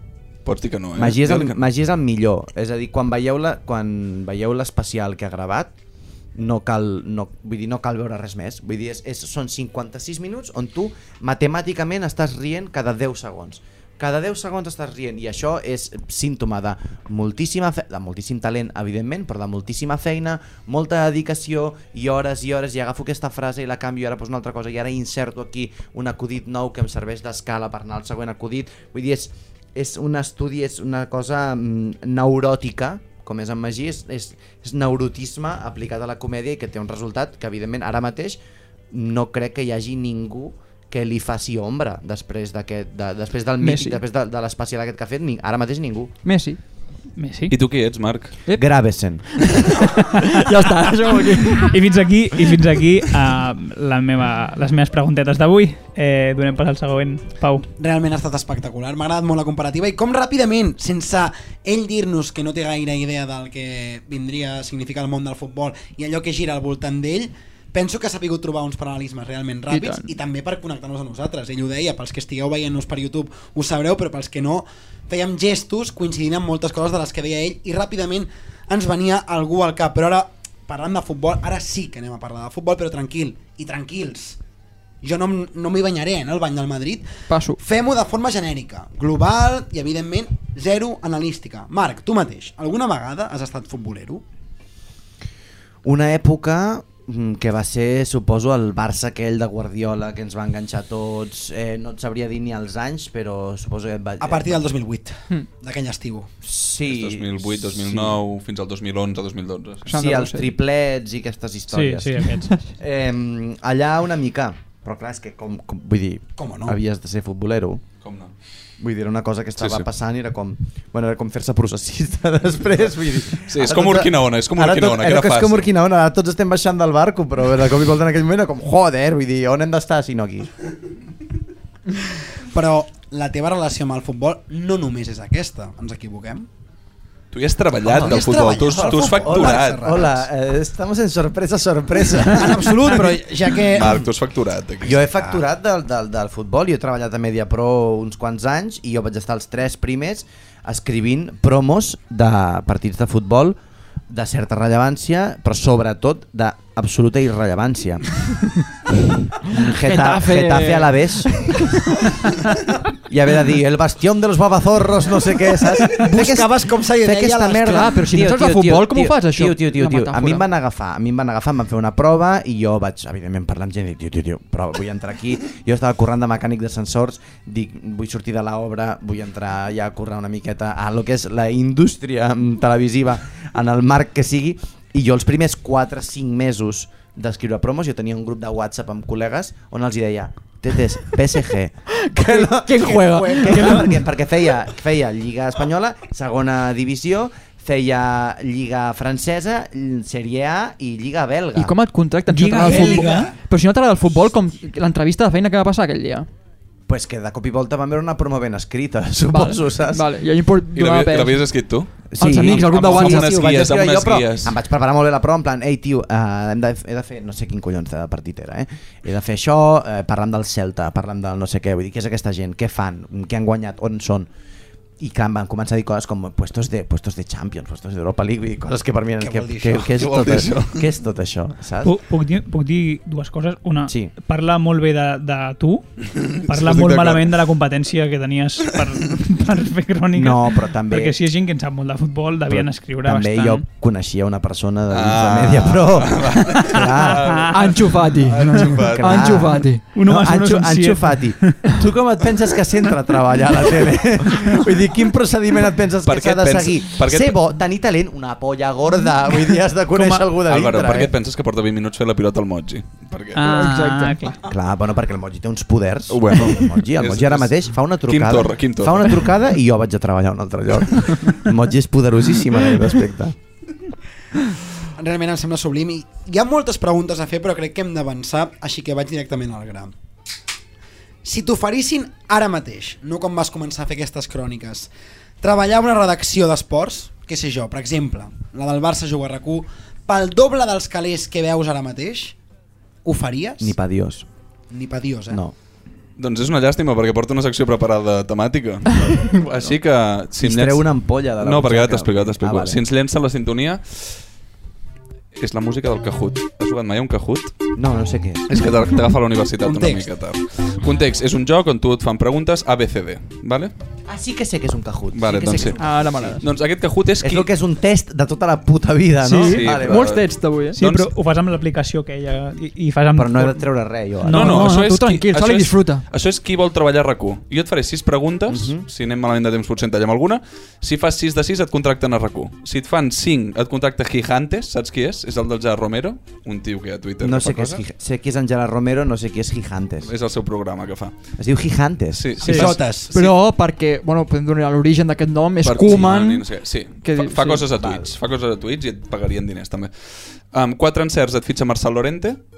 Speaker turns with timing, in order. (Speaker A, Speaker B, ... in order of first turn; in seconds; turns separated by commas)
Speaker A: 0.4-1.5, Speaker B: 0.9-5.7, Speaker B: 6.3-38.4, Speaker B: 38.9-46.1, Speaker C: 43.6-44.0, Speaker C: 46.2-46.6, Speaker D: 47.2-47.5, Speaker A: 47.5-48.3, Speaker B: 48.5-49.5, Speaker D: 50.0-50.4, Speaker C: 50.2-51.7, Speaker D: 51.5-57.7, Speaker E: 57.8-84.4, Speaker C: 69.7-70.1, Speaker E: 85.0-87.1, Speaker C: 87.3-87.6, Speaker E: 87.6-94.2, Speaker B: 95.8-104.6, Speaker E: 104.2-106.3, Speaker B: 106.4-108.2, Speaker A: 106.9-109.9, Speaker C: 109.8-110.5, Speaker B: 109.9-117.8, Speaker D: 111.7-112.5, Speaker E: 116.4-116.7, Speaker A: 118.0-118.3, Speaker B: 118.8-130.5, Speaker A: 119.6-119.8, Speaker A: 123.5-125.7, Speaker E: 132.5-136.5, Speaker A: 137.3-140.1, Speaker E: 137.8-140.2, Speaker B: 137.9-138.2, Speaker B: 138.7-143.1, Speaker E: 142.2-144.0, Speaker A: 143.7-145.0, Speaker B: 144.8-153.6, Speaker B: 154.1-158.2, Speaker B: 159.4-161.7, Speaker C: 159.8-161.9, Speaker B: 163.1-201.7, Speaker E: 165.9-167.9, Speaker C: 167.6-170.4, Speaker C: 192.0-194.0, Speaker C: 201.6-206.3, Speaker D: 202.3-203.3, Speaker E: 202.7-203.3, Speaker B: 206.9-210.0, Speaker C: 209.3-211.4, Speaker A: 210.7-214.6, Speaker B: 212.1-224.3, Speaker C: 212.2-213.4, Speaker B: 225.0-232.0, Speaker E: 229.2-229.9, Speaker A: 229.9-230.8, Speaker D: 231.8-235.8, Speaker B: 233.9-234.1, Speaker A: 236.2-237.3, Speaker D: 236.4-243.6, Speaker B: 240.1-241.2, Speaker B: 242.5-247.5, Speaker A: 244.9-249.4, Speaker D: 246.6-247.5, Speaker C: 247.5-249.8, Speaker B: 248.8-261.1, Speaker D: 249.8-251.8, Speaker A: 256.0-257.4, Speaker A: 260.4-263.6, Speaker D: 263.3-264.4, Speaker C: 263.4-264.3, Speaker B: 264.4-273.4, Speaker A: 266.1-269.2, Speaker E: 275.0-279.9, Speaker E: 281.2-284.9, Speaker E: 285.4-292.3, Speaker E: 293.0-293.7, Speaker B: 293.6-294.3, Speaker E: 294.7-295.4, Speaker B: 295.3-295.5, Speaker A: 296.2-304.2, Speaker B: 300.4-302.8, Speaker A: 305.4-307.5, Speaker B: 307.8-308.5, Speaker A: 308.5-313.7, Speaker E: 309.6-310.1, Speaker B: 314.1-316.4, Speaker A: 315.1-315.8, Speaker C: 315.8-316.4, Speaker A: 316.4-317.5, Speaker B: 317.2-320.2, Speaker C: 319.2-320.8, Speaker A: 319.4-321.1, Speaker D: 320.7-323.6, Speaker B: 323.1-324.6, Speaker D: 324.2-324.7, Speaker C: 324.3-326.0, Speaker A: 324.3-337.8, Speaker B: 328.5-328.8, Speaker B: 337.2-340.1, Speaker A: 340.0-341.1, Speaker B: 341.4-342.4, Speaker A: 342.1-343.3, Speaker E: 342.4-343.1, Speaker C: 342.5-346.4, Speaker A: 345.6-352.4, Speaker C: 347.0-347.6, Speaker B: 347.7-348.1